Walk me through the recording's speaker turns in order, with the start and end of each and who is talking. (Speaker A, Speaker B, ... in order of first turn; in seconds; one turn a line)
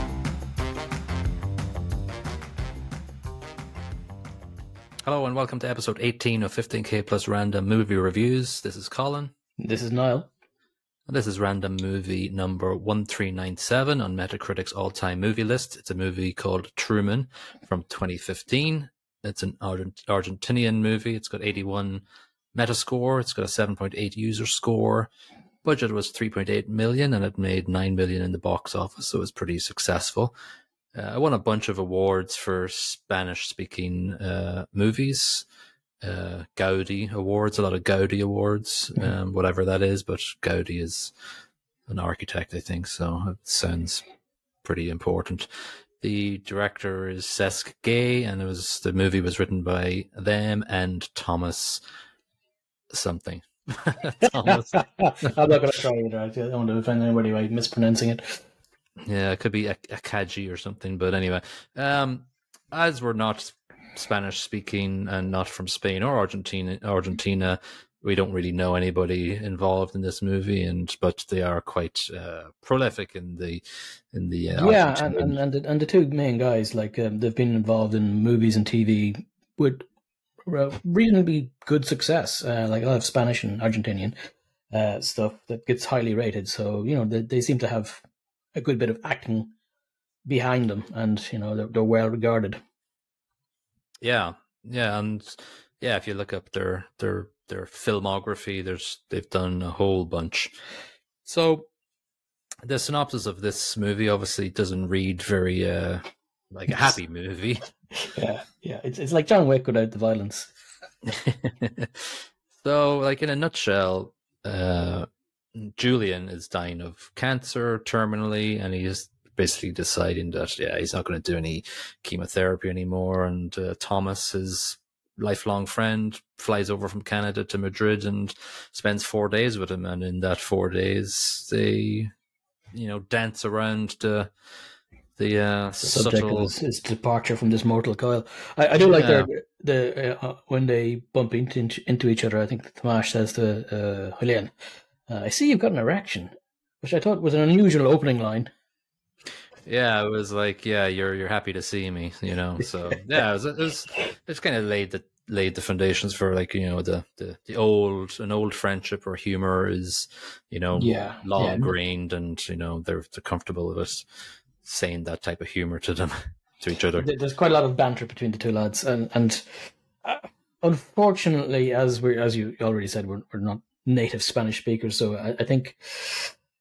Speaker A: 5.0-9.3
Speaker B: 9.6-10.3
Speaker A: 11.1-25.1
Speaker A: 25.6-30.3
Speaker A: 30.9-35.5
Speaker A: 36.0-41.1
Speaker A: 41.9-44.0
Speaker A: 44.6-45.5
Speaker A: 46.0-51.8
Speaker A: 52.9-55.4
Speaker B: 54.4-58.4
Speaker A: 59.0-75.4
Speaker B: 74.6-79.9
Speaker B: 80.5-84.2
Speaker B: 84.7-88.0
Speaker B: 88.5-89.5
Speaker B: 90.3-92.6
Speaker A: 94.0-100.5
Speaker A: 101.2-101.7
Speaker A: 102.7-107.7
Speaker B: 108.0-110.5
Speaker A: 111.1-132.1
Speaker A: 132.7-134.3
Speaker A: 135.2-136.5
Speaker B: 135.8-144.5
Speaker A: 138.9-139.3
Speaker B: 145.1-148.5
Speaker A: 149.7-164.1
Speaker B: 160.8-161.7
Speaker A: 164.6-167.1
Speaker B: 167.0-176.3